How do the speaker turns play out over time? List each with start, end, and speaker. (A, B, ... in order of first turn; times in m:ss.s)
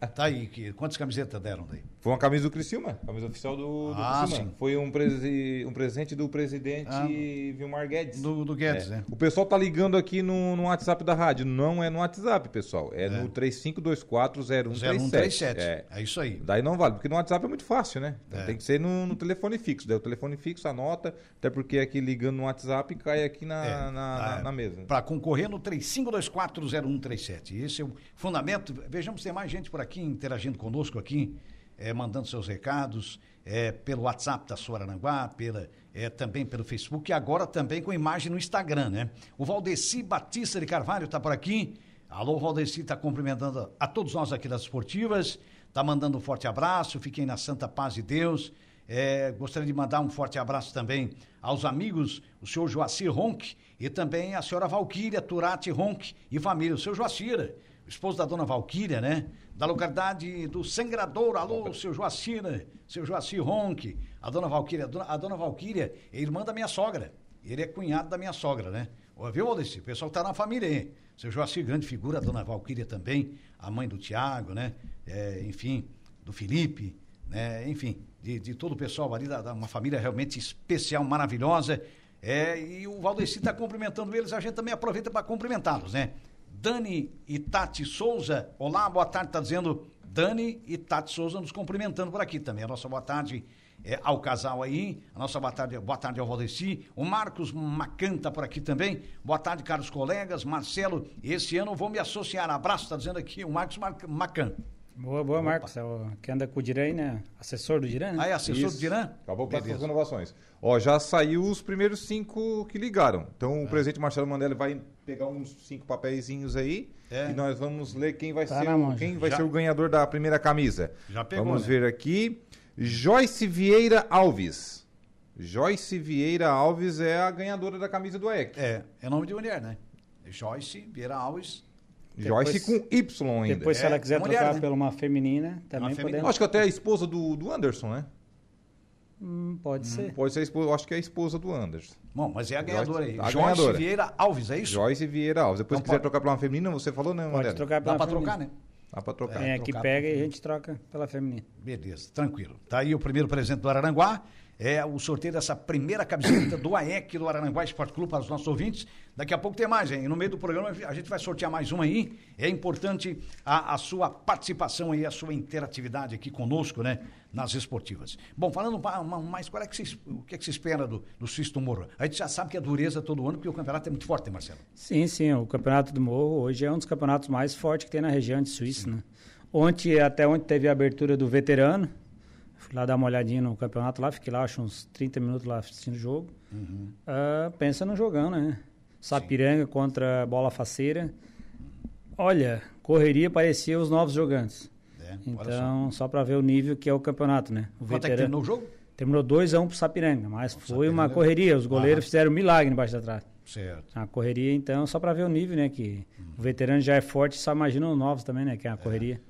0:00.1-0:01.9 A
0:02.0-0:15.8 B
0:03.8-0:04.5 A
0:06.8-0:07.2 A
0:08.1-0:09.1 A
0:13.0-0:13.3 A
0:14.7-0:16.4 A
0:16.4-0:24.9 B
0:18.3-0:18.6 A
0:23.6-1:44.6 A
1:45.0-1:48.6 C
1:48.1-1:49.9 A
1:48.6-2:04.8 B
1:57.1-1:57.4 A
1:58.5-1:59.1 C
1:59.2-1:59.4 A
2:01.1-2:01.7 A
2:05.4-2:08.6 B
2:08.5-2:11.6 A
2:12.2-2:13.8 B
2:12.2-2:12.8 C
2:13.5-2:16.3 C
2:13.7-2:14.7 A
2:15.7-2:16.4 A
2:16.2-2:18.1 B
2:19.2-2:20.2 C
2:19.8-2:20.1 A
2:19.9-2:22.0 B
2:22.1-2:24.8 A
2:22.6-2:23.8 B
2:24.6-2:27.7 B
2:25.7-2:26.0 A
2:27.3-2:28.4 C
2:27.8-2:28.5 A
2:28.9-2:29.5 B
2:29.3-2:30.2 A
2:29.4-2:31.4 C
2:31.6-2:54.6 A
2:54.8-3:01.9 C
3:02.6-3:06.3 C
3:06.5-3:06.9 A
3:07.1-3:11.1 C
3:12.2-3:14.7 C
3:15.0-3:15.7 A
3:15.2-3:18.3 C
3:17.9-3:18.7 A
3:19.0-3:23.2 C
3:20.5-3:22.1 A
3:23.4-3:23.9 A
3:23.9-3:29.2 C